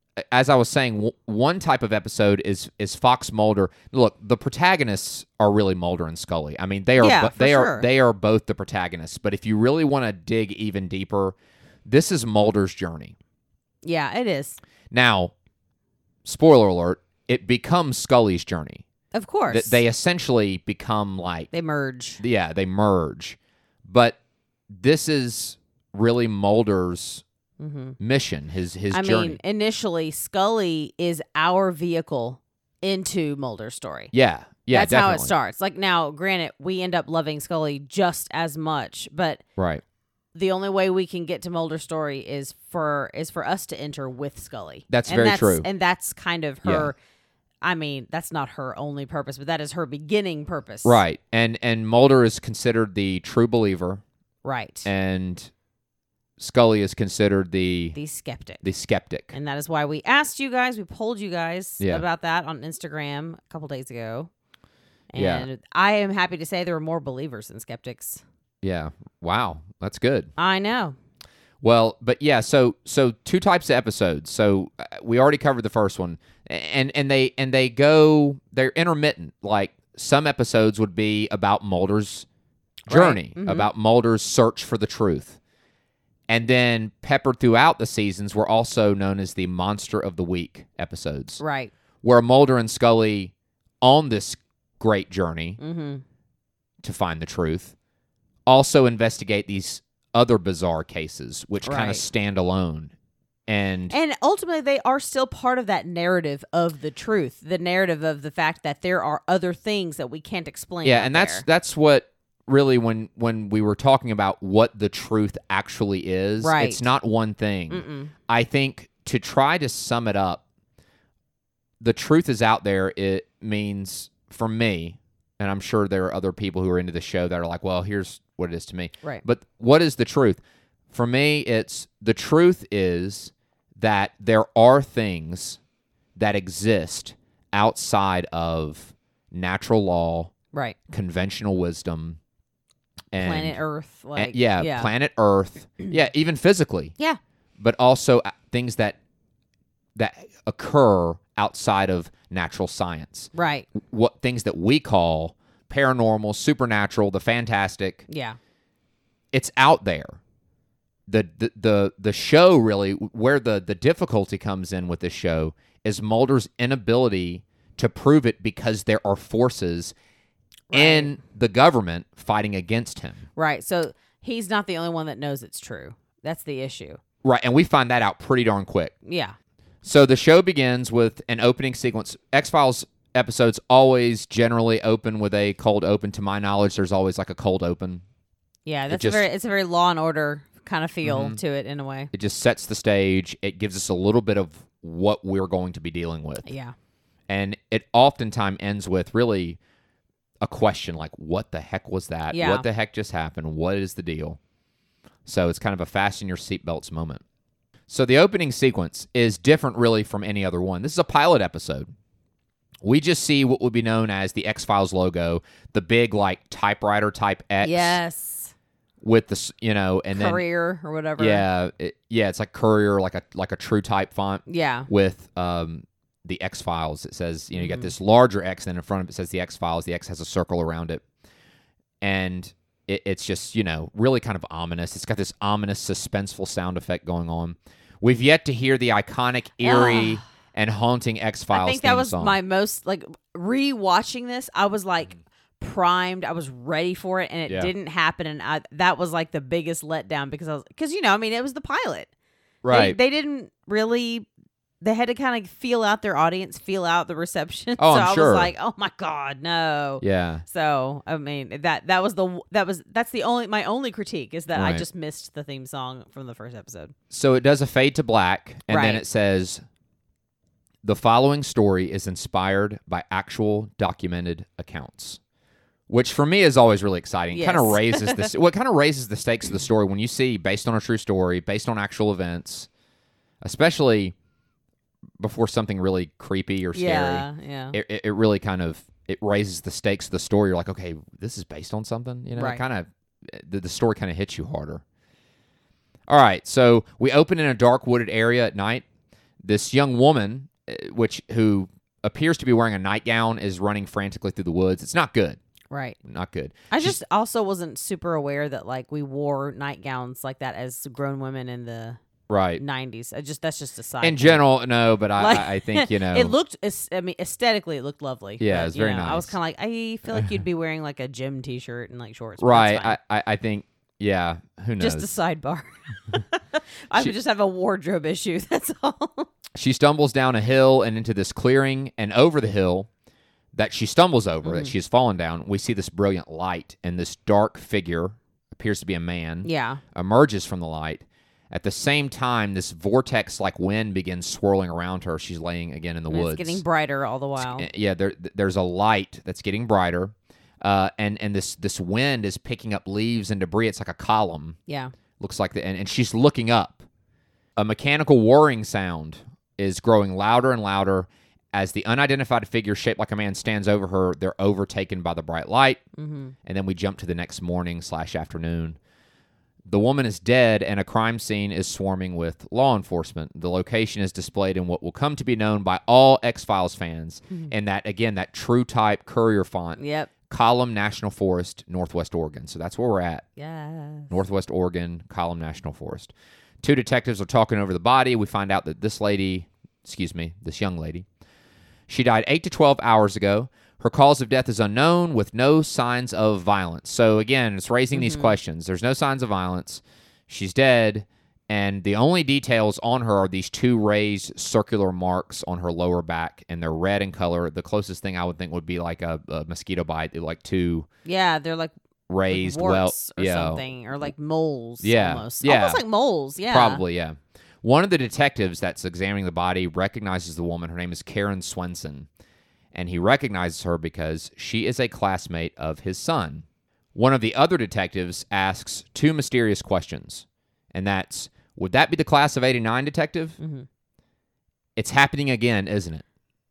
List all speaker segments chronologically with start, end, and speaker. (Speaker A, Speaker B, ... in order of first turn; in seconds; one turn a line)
Speaker A: 0.2-13.2
Speaker B: 7.0-7.9
Speaker B: 13.8-14.6
Speaker A: 14.9-15.3
Speaker A: 16.2-18.9
Speaker B: 19.1-19.8
Speaker A: 19.5-21.5
Speaker B: 21.5-22.2
Speaker A: 22.2-24.2
Speaker A: 24.7-27.2
Speaker B: 27.6-28.0
Speaker A: 28.0-29.4
Speaker B: 28.9-34.1
Speaker A: 34.1-35.3
Speaker B: 34.7-39.4
Speaker A: 39.6-39.8
Speaker B: 40.4-47.0
Speaker A: 44.9-45.7
Speaker A: 46.6-46.9
Speaker B: 47.6-51.0
Speaker A: 50.8-54.0
Speaker B: 54.4-54.9
Speaker A: 54.9-55.5
Speaker A: 56.4-58.0
Speaker B: 57.9-58.6
Speaker A: 58.6-59.3
Speaker B: 59.3-64.3
Speaker B: 65.1-68.2
Speaker A: 65.2-65.5
Speaker A: 68.6-70.3
Speaker B: 70.4-71.0
Speaker A: 71.6-82.3
Speaker B: 82.9-83.7
Speaker A: 82.9-85.4
Speaker A: 86.3-91.4
Speaker B: 91.4-91.7
Speaker A: 92.0-95.6
Speaker B: 95.6-96.0
Speaker A: 96.8-97.8
Speaker A: 98.5-102.9
Speaker B: 101.6-102.0
Speaker A: 103.5-104.0
Speaker B: 103.9-111.5
Speaker A: 110.8-120.4
Speaker B: 116.4-116.9
Speaker B: 117.7-118.1
Speaker A: 121.8-130.4
Speaker A: 130.9-135.6
Speaker A: 136.2-140.3
Speaker A: 140.9-142.2
Speaker A: 143.1-143.6
Speaker B: 143.2-144.9
Speaker A: 144.2-146.9
Speaker A: 147.6-149.0
Speaker A: 149.9-158.1
Speaker B: 153.3-153.7
Speaker B: 158.1-158.4
Speaker A: 159.3-160.2
Speaker A: 161.1-169.9
Speaker B: 170.7-171.2
Speaker A: 170.7-173.3
Speaker B: 173.4-177.0
Speaker A: 177.2-178.9
Speaker B: 179.1-179.3
Speaker A: 179.8-188.0
Speaker B: 188.7-192.1
Speaker A: 188.9-189.3
Speaker A: 191.0-191.4
Speaker A: 192.1-196.5
Speaker B: 196.4-196.7
Speaker A: 197.3-199.6
Speaker A: 200.4-204.4
Speaker B: 202.3-202.7
Speaker A: 205.3-207.2
Speaker A: 207.9-211.9
Speaker A: 212.8-218.0
Speaker B: 217.6-218.5
Speaker A: 219.0-220.4
Speaker B: 220.1-221.5
Speaker A: 221.2-231.0
Speaker B: 224.5-224.9
Speaker B: 227.5-227.9
Speaker A: 232.0-242.4
Speaker B: 239.6-240.2
Speaker B: 241.5-252.1
Speaker A: 252.6-253.0
Speaker B: 252.7-254.3
Speaker B: 254.8-266.9
Speaker A: 257.8-258.5
Speaker A: 260.0-260.4
Speaker A: 264.5-264.9
Speaker A: 267.1-269.6
Speaker B: 268.7-269.0
Speaker A: 270.8-275.2
Speaker A: 275.9-282.7
Speaker B: 277.3-278.3
Speaker A: 283.4-284.1
Speaker A: 285.2-294.8
Speaker B: 286.7-287.8
Speaker B: 292.4-292.6
Speaker A: 296.1-298.9
Speaker A: 299.4-305.4
Speaker B: 305.7-306.0
Speaker A: 306.0-307.0
Speaker B: 306.7-312.0
Speaker A: 312.3-312.6
Speaker B: 312.6-314.4
Speaker A: 314.0-316.4
Speaker B: 315.2-323.0
Speaker A: 318.4-319.3
Speaker A: 322.4-325.1
Speaker B: 324.8-329.3
Speaker A: 329.6-332.9
Speaker A: 333.5-346.6
Speaker B: 334.4-334.7
Speaker B: 339.4-339.8
Speaker B: 346.1-347.7
Speaker A: 347.4-354.6
Speaker B: 354.7-354.9
Speaker A: 355.2-356.8
Speaker A: 357.6-365.8
Speaker B: 366.0-366.4
Speaker A: 366.4-368.8
Speaker A: 369.7-383.3
Speaker B: 379.8-380.1
Speaker B: 383.4-384.1
Speaker A: 384.1-391.1
Speaker A: 391.9-410.9
Speaker B: 397.9-398.4
Speaker B: 411.1-411.7
Speaker A: 412.1-413.6
Speaker B: 412.3-416.8
Speaker A: 414.8-415.8
Speaker A: 416.5-422.1
Speaker A: 422.7-433.4
Speaker B: 433.4-433.7
Speaker A: 434.8-436.1